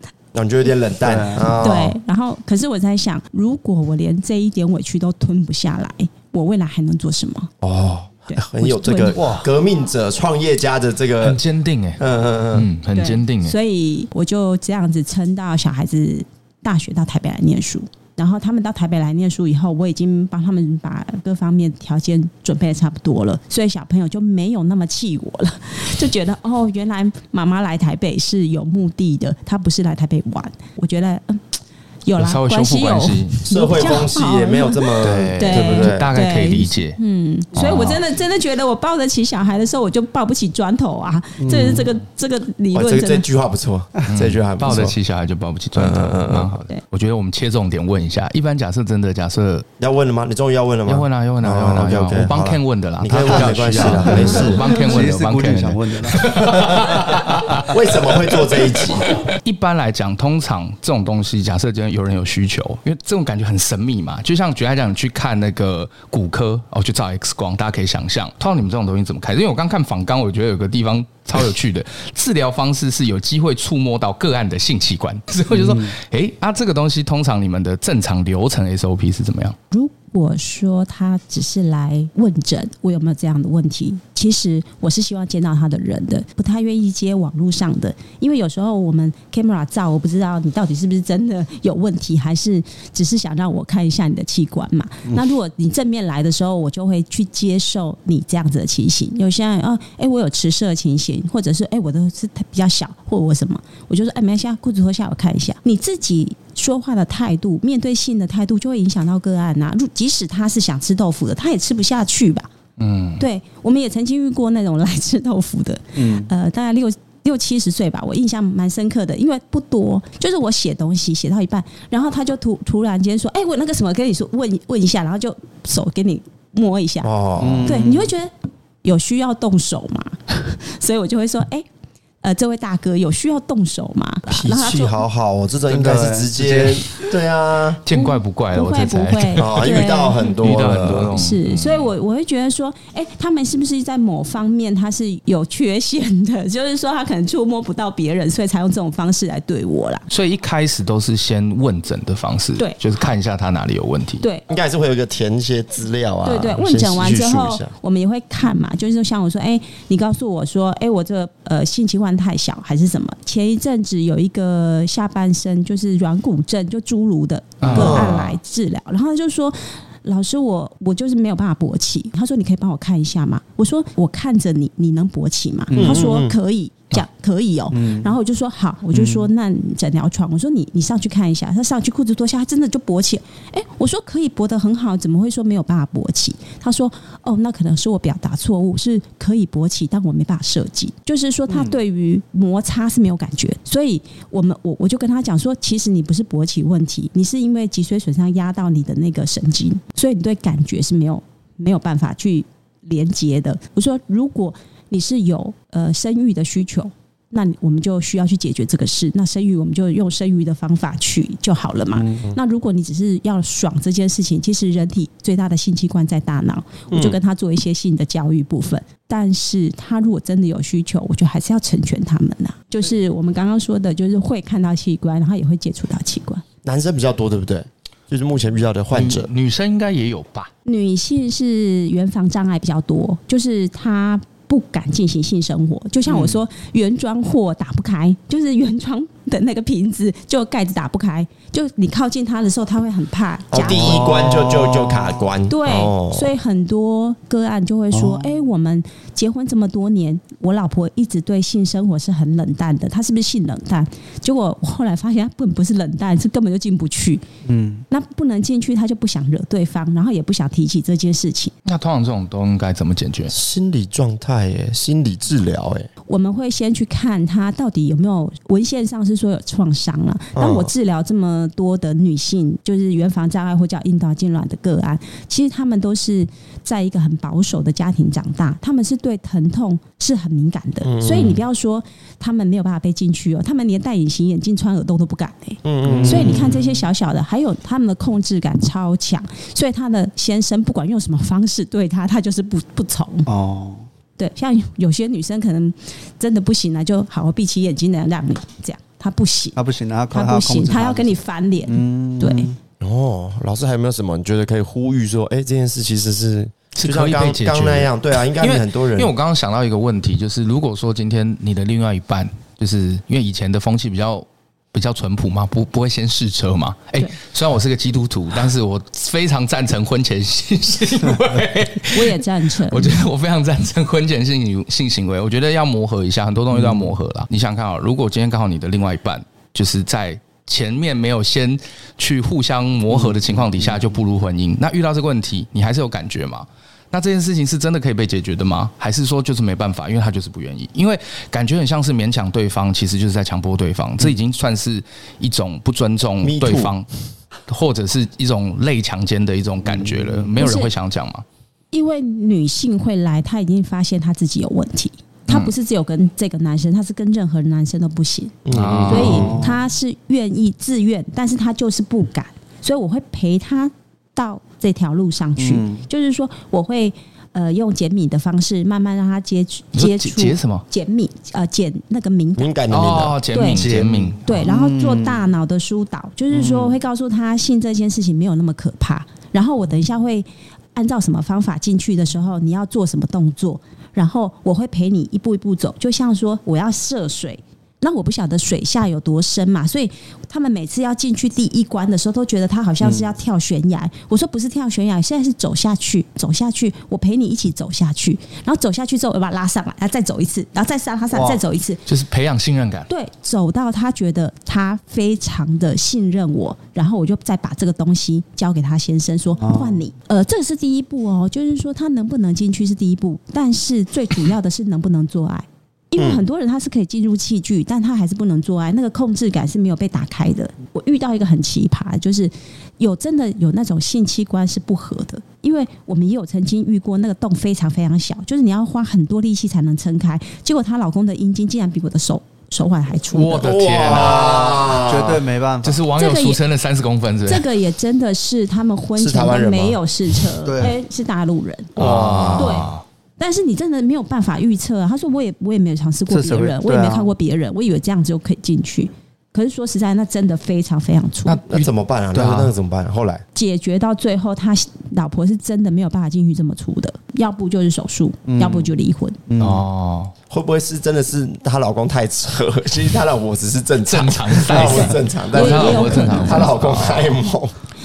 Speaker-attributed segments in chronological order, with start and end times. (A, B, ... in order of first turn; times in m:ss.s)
0:00.3-0:02.0 A
0:01.0-0:01.6 B
0:01.5-0:07.5 C
0:07.6-0:11.4 A
0:08.3-0:09.2 C
0:09.1-0:09.5 B
0:11.2-0:13.5 D
0:12.0-0:12.7 A
0:12.9-0:43.2 C
0:32.2-0:33.4 D
0:33.4-0:36.1 A
0:35.0-0:37.0 D
0:37.5-0:38.0 D
0:41.4-0:41.9 B
0:42.7-0:45.0 A
0:44.1-0:49.6 D
0:45.7-0:46.5 A
0:49.8-0:54.7 A
0:50.9-0:57.7 D
0:53.2-0:57.4 B
0:57.6-0:59.1 A
0:59.0-1:19.6 D
1:15.5-1:15.9 B
1:19.7-1:52.5 C
1:52.8-1:53.2 D
1:53.2-2:07.1 C
1:56.0-1:56.3 B
2:07.0-2:07.8 A
2:07.4-2:08.1 B
2:07.6-2:08.3 C
2:08.8-2:11.7 C
2:12.2-2:15.0 C
2:14.3-2:17.8 A
2:15.7-2:16.9 B
2:17.8-2:21.9 D
2:17.9-2:20.4 C
2:19.4-2:21.2 A
2:21.1-2:30.1 C
2:30.1-2:34.2 D
2:34.5-2:37.7 A
2:36.2-3:46.4 C
2:47.6-2:48.2 D
2:47.7-2:48.4 A
2:55.7-2:56.0 B
2:55.7-2:56.3 A
2:57.7-2:58.1 B
2:58.9-2:59.3 B
3:11.5-3:11.8 B
3:31.9-3:32.2 B
3:36.9-3:37.2 A
3:46.6-3:49.3 A
3:48.9-3:50.5 D
3:50.6-4:04.0 C
3:56.1-3:56.4 B
4:03.5-4:06.3 A
4:03.5-4:05.3 B
4:05.5-4:17.2 C
4:07.9-4:08.3 B
4:17.4-4:17.8 B
4:17.9-4:21.5 C
4:21.6-4:23.3 D
4:23.3-4:25.9 A
4:26.1-4:53.3 C
4:30.4-4:30.7 A
4:40.8-4:41.4 A
4:45.6-4:46.6 A
4:45.8-4:46.9 B
4:53.3-4:53.9 B
4:54.2-4:59.6 C
4:59.6-5:02.6 B
5:00.1-5:02.5 C
5:02.8-5:09.1 A
5:06.7-5:46.9 D
5:21.9-5:23.0 C
5:26.5-5:26.9 B
5:32.9-5:33.8 B
5:46.2-5:46.7 A
5:47.5-5:51.2 D
5:49.6-5:50.4 B
5:50.4-5:50.7 C
5:51.7-6:12.5 C
5:58.4-5:59.4 A
5:58.5-5:59.4 D
5:58.9-5:59.6 B
6:05.4-6:05.8 B
6:09.8-6:10.6 D
6:12.4-6:13.2 A
6:12.7-6:14.4 D
6:13.3-6:13.7 C
6:13.5-6:15.2 B
6:14.2-6:41.8 C
6:16.3-6:16.8 B
6:32.8-6:33.1 B
6:41.1-6:41.4 B
6:41.8-6:42.9 D
6:42.9-7:13.5 C
6:49.4-6:49.8 B
6:56.0-6:56.2 A
7:13.1-7:14.6 D
7:13.4-7:15.2 A
7:13.8-7:15.8 B
7:15.6-7:17.4 D
7:16.0-7:16.4 C
7:17.3-7:21.8 C
7:19.0-7:19.8 A
7:20.4-7:20.7 B
7:21.8-7:22.8 D
7:21.8-7:22.4 B
7:21.8-7:22.2 A
7:22.3-7:31.4 C
7:26.1-7:27.1 B
7:31.3-7:32.5 D
7:31.4-7:33.2 A
7:33.3-7:39.2 C
7:38.2-7:38.7 B
7:39.3-7:39.6 B
7:39.4-7:40.1 D
7:40.3-7:47.5 A
7:43.8-7:47.1 D
7:44.6-7:46.5 C